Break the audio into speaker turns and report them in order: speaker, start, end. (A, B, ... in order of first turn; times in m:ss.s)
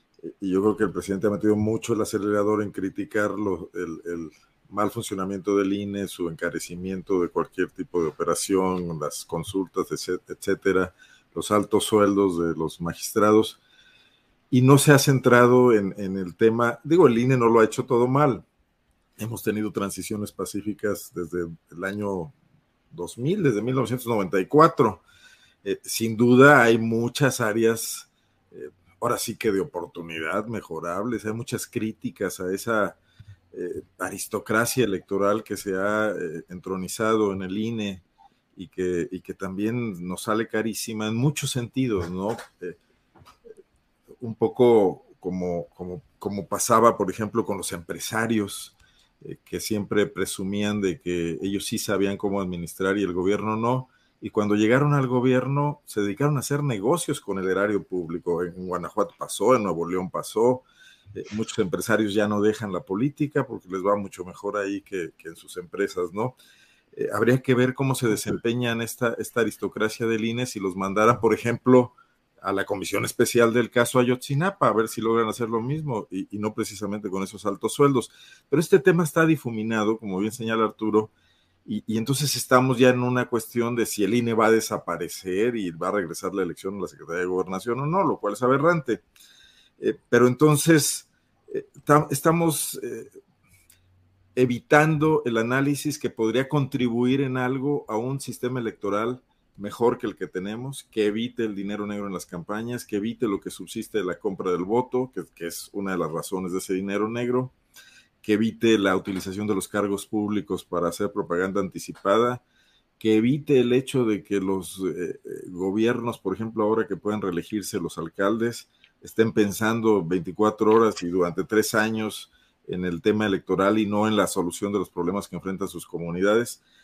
0:00.2-0:13.6 A
0:14.5-0:18.4 A
0:19.2-0:22.3 A
0:22.9-0:25.0 A
0:25.6-0:33.0 A
0:33.5-0:38.0 A
0:38.6-0:42.8 A
0:44.2-1:06.4 A
1:06.9-1:21.1 A
1:21.6-1:29.0 A
1:29.8-1:33.1 A
1:34.3-1:47.5 A
1:48.2-1:52.4 A
1:53.0-2:06.6 A